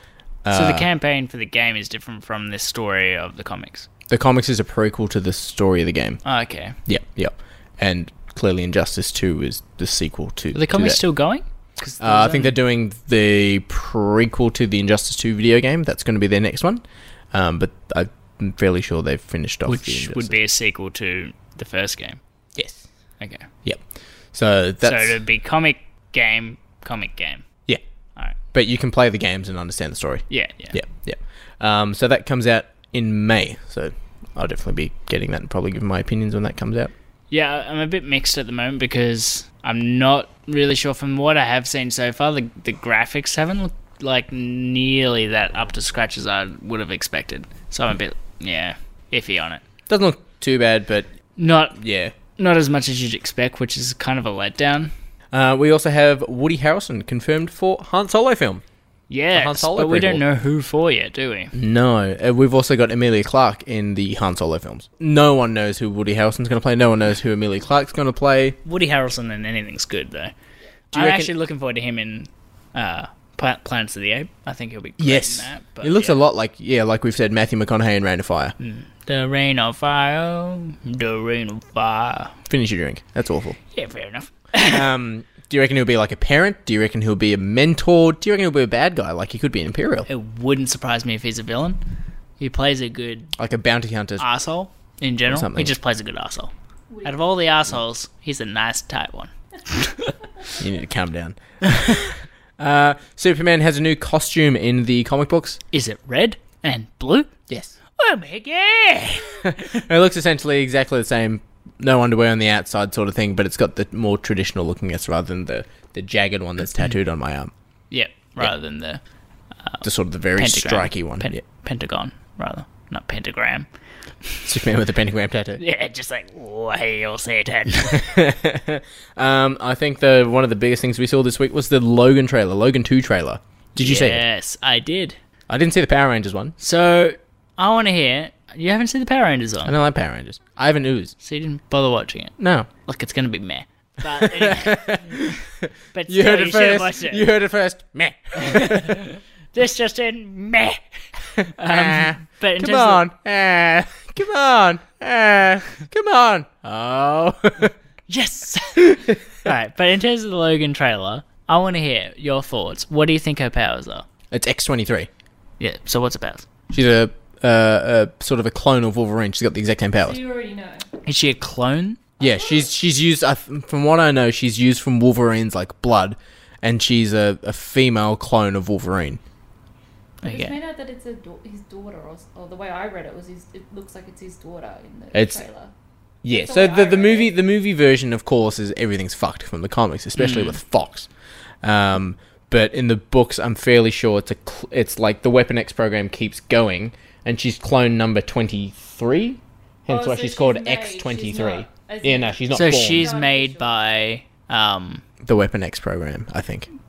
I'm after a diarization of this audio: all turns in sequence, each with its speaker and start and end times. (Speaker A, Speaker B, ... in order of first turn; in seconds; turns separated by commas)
Speaker A: 0.4-0.9, Speaker B: 0.5-3.9, Speaker A: 4.1-6.2, Speaker B: 6.2-6.8, Speaker A: 6.9-11.0, Speaker B: 10.5-12.6, Speaker A: 12.0-20.4, Speaker B: 19.7-22.2, Speaker A: 22.6-22.9, Speaker B: 23.2-23.4, Speaker A: 23.6-25.2, Speaker B: 24.8-27.4, Speaker A: 28.5-36.9, Speaker B: 30.3-30.8, Speaker B: 37.3-49.6, Speaker A: 49.9-51.1, Speaker B: 51.4-51.8, Speaker A: 51.8-52.1, Speaker B: 52.4-54.9, Speaker A: 55.3-58.6, Speaker B: 59.1-61.5, Speaker A: 59.3-60.2, Speaker A: 61.5-68.6, Speaker B: 68.6-70.3, Speaker A: 70.9-71.3, Speaker B: 70.9-76.2, Speaker A: 75.0-78.5, Speaker B: 78.6-82.3, Speaker A: 82.5-83.6, Speaker B: 83.7-84.8, Speaker A: 84.5-90.1, Speaker B: 90.1-91.8, Speaker B: 92.4-93.3, Speaker A: 93.4-94.2, Speaker B: 94.2-96.5, Speaker A: 95.3-95.8, Speaker C: 96.9-97.3, Speaker B: 97.0-100.1, Speaker A: 100.6-105.6, Speaker B: 105.7-107.3, Speaker A: 107.5-107.8, Speaker B: 108.0-109.8, Speaker A: 109.4-117.5, Speaker B: 117.9-119.0, Speaker A: 119.8-121.4, Speaker B: 120.4-123.7, Speaker A: 124.5-125.6, Speaker B: 125.6-128.0, Speaker A: 127.9-134.2, Speaker B: 133.8-135.2, Speaker A: 135.5-136.5, Speaker B: 136.6-139.7, Speaker A: 139.6-141.1, Speaker B: 141.2-142.3, Speaker A: 142.4-142.7, Speaker B: 142.9-145.2, Speaker A: 144.1-149.0, Speaker B: 145.9-147.3, Speaker B: 148.4-150.8, Speaker A: 151.4-157.7, Speaker B: 151.6-153.0, Speaker B: 158.1-164.1, Speaker A: 158.8-159.2, Speaker A: 164.3-165.1, Speaker B: 165.6-166.4, Speaker A: 166.7-170.2, Speaker C: 170.0-170.9, Speaker B: 171.0-172.0, Speaker C: 172.2-172.7, Speaker A: 172.2-179.2, Speaker B: 180.2-180.5, Speaker C: 180.2-185.7, Speaker A: 185.1-185.4, Speaker A: 186.2-191.1, Speaker C: 186.3-187.4, Speaker B: 190.2-190.6, Speaker A: 191.6-203.1, Speaker C: 199.9-203.8, Speaker B: 202.5-205.0, Speaker A: 205.2-206.7